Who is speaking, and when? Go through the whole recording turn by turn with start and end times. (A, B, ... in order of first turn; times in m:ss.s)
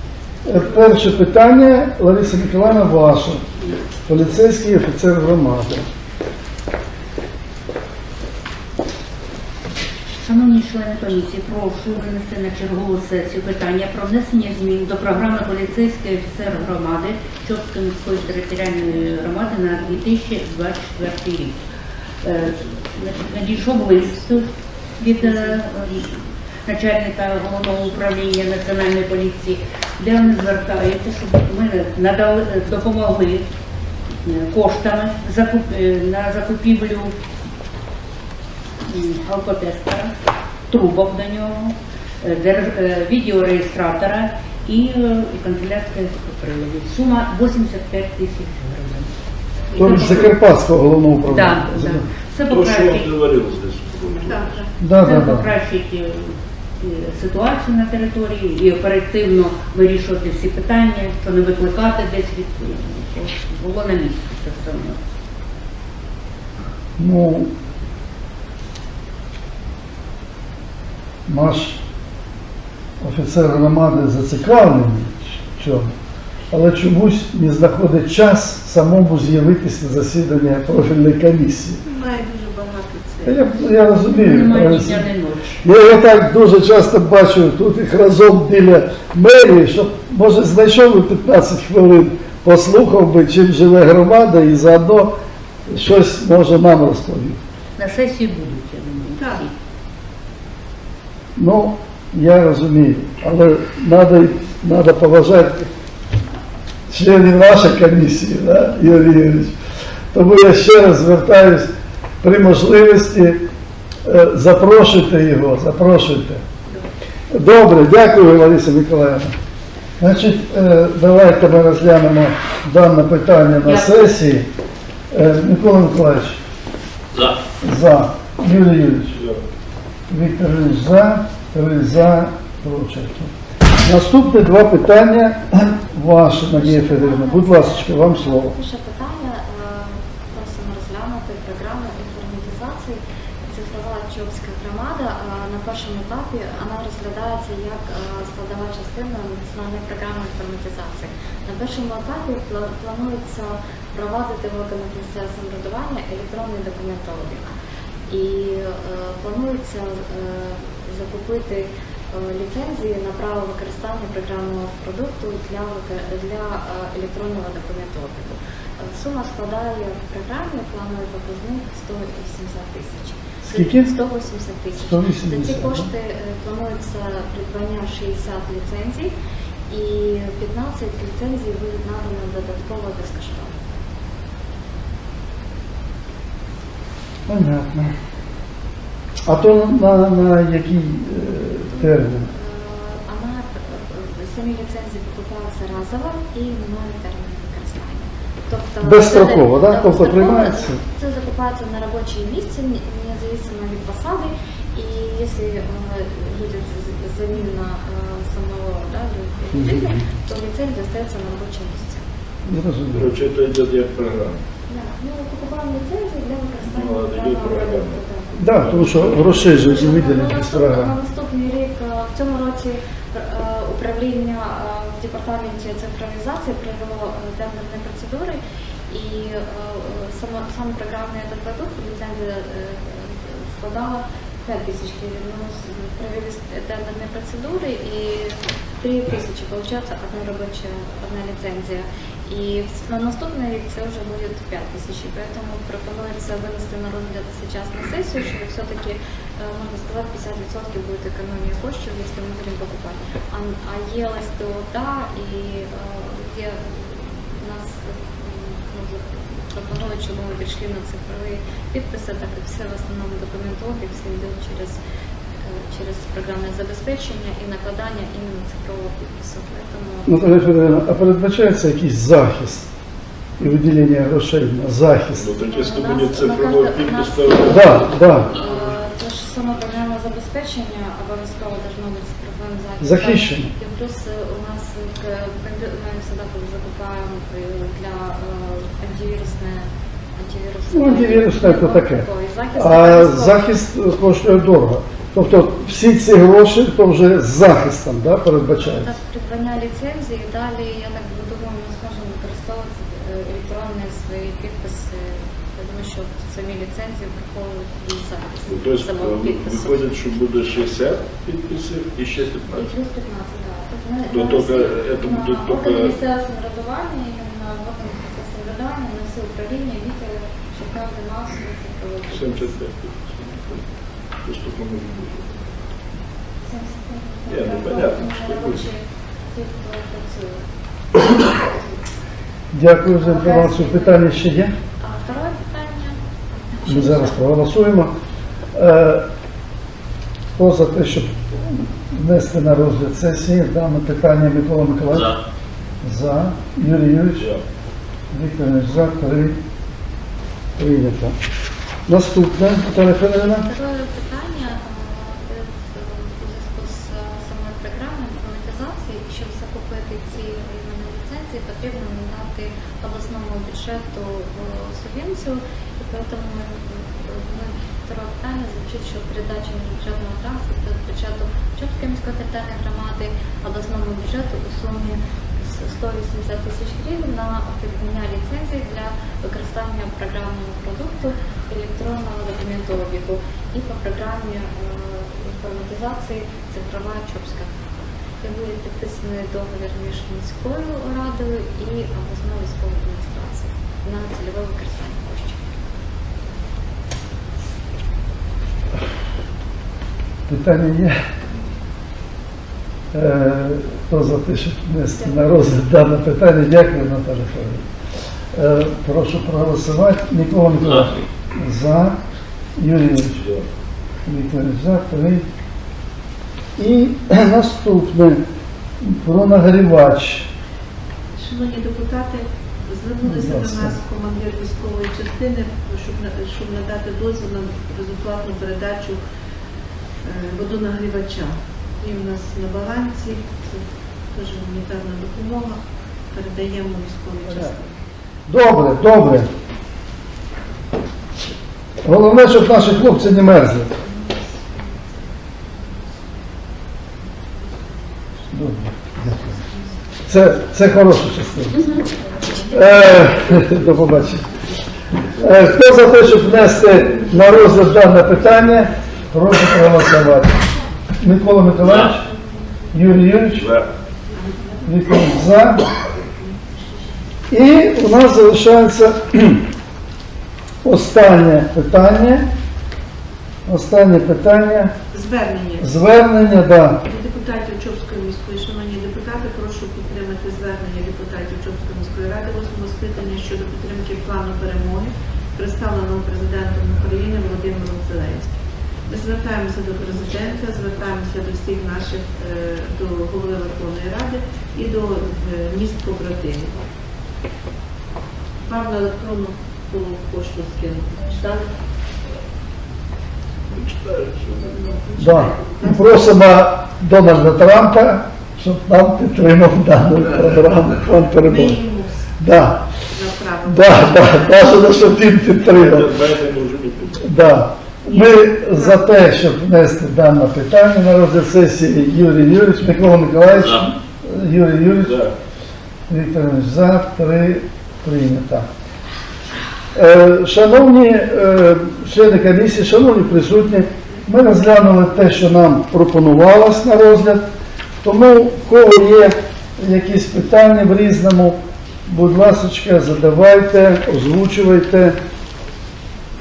0:00.4-0:03.4 A
0:04.1-0:05.9 A
0:10.2-0:21.6 B
0:22.2-0:26.1 B
0:25.2-0:26.2 C
0:26.6-0:33.4 B
0:34.2-0:37.1 B
0:38.8-0:40.1 B
0:40.7-0:49.1 B
0:49.7-0:50.3 B
0:49.8-0:52.0 A
0:51.2-0:53.1 B
0:52.5-0:54.6 D
0:54.2-0:54.7 C
0:54.8-0:55.5 A
0:55.0-1:05.0 B
1:07.0-1:07.5 A
1:11.3-1:11.8 A
1:13.0-1:15.9 A
1:16.5-1:21.8 A
1:21.8-1:23.5 C
1:23.2-1:25.1 A
1:24.1-1:25.6 B
1:25.6-1:35.2 A
1:35.7-1:37.4 A
1:37.8-1:39.5 B
1:39.2-1:39.4 C
1:41.4-1:45.7 A
1:46.9-1:49.6 A
1:50.1-1:51.7 A
1:52.2-1:53.5 A
1:54.0-1:56.4 A
1:57.3-1:59.4 A
2:00.0-2:04.5 A
2:03.6-2:04.0 B
2:05.1-2:06.4 A
2:07.6-2:09.2 A
2:09.1-2:09.4 D
2:10.1-2:13.3 A
2:13.8-2:18.5 A
2:16.3-2:37.5 E
2:38.1-2:59.1 E
2:53.4-2:53.9 A
2:54.8-2:55.9 A
2:59.7-3:03.6 E
3:07.3-3:07.9 A
3:09.3-3:12.3 A
3:11.7-3:32.0 E
3:18.8-3:20.8 A
3:29.5-3:30.0 A
3:32.5-3:33.1 A
3:32.9-3:34.4 D
3:34.7-4:24.8 E
3:36.6-3:40.0 D
3:38.4-3:40.9 A
4:25.4-4:30.4 E
4:30.1-4:32.7 A
4:33.4-4:35.3 A
4:35.1-4:38.8 D
4:35.4-4:53.4 E
4:37.5-4:38.4 A
4:42.8-4:43.5 A
4:50.7-4:58.9 A
4:58.6-5:09.9 E
5:08.5-5:12.7 D
5:12.5-5:22.6 E
5:14.1-5:16.0 D
5:22.1-5:23.6 D
5:24.2-5:25.6 D
5:26.5-5:31.8 E
5:27.3-5:28.6 D
5:32.5-5:34.5 A
5:32.8-5:34.2 E
5:34.8-5:37.5 E
5:36.7-5:37.9 A
5:38.5-5:39.1 A
5:40.4-5:45.2 A
5:45.8-5:47.3 A
5:47.2-5:47.4 D
5:48.1-5:49.4 A
5:50.6-5:51.2 A
5:51.9-5:53.5 A
5:53.2-6:27.6 E
6:28.2-6:35.5 E
6:40.3-6:41.0 A
6:42.9-6:47.6 A
6:44.9-6:45.3 E
6:48.3-6:52.0 A
6:52.6-6:53.2 A
6:53.1-6:53.5 D
6:54.1-6:55.2 A
6:56.6-6:58.2 A
6:58.8-7:00.3 A
7:01.2-7:09.0 C
7:03.0-7:03.8 A
7:10.0-7:17.8 C
7:17.3-7:17.6 A
7:18.3-7:19.3 A
7:21.8-7:23.7 A
7:28.3-7:29.4 A
7:30.1-7:31.8 A
7:32.4-7:34.3 A
7:35.2-7:40.4 A
7:36.2-7:38.6 D
7:41.0-7:42.1 A
7:42.7-7:43.5 A
7:43.3-7:43.7 D
7:44.1-7:44.6 C
7:44.6-7:45.7 A
7:46.3-7:46.6 C
7:47.3-7:49.5 A
7:50.6-7:52.3 A
7:53.5-7:54.8 A
7:54.9-7:55.8 C
7:55.6-7:56.9 A
7:56.8-8:16.6 C
8:18.4-8:21.5 C
8:23.5-8:24.8 D
8:24.4-8:26.1 C
8:25.0-8:31.6 A
8:31.1-8:34.5 C
8:32.2-8:32.6 A
8:33.4-8:35.9 A
8:35.4-8:37.4 D
8:37.0-8:45.0 A
8:37.8-8:39.0 C
8:44.8-8:45.1 D
8:45.9-8:48.5 A
8:49.7-8:57.3 A
8:57.8-9:05.0 A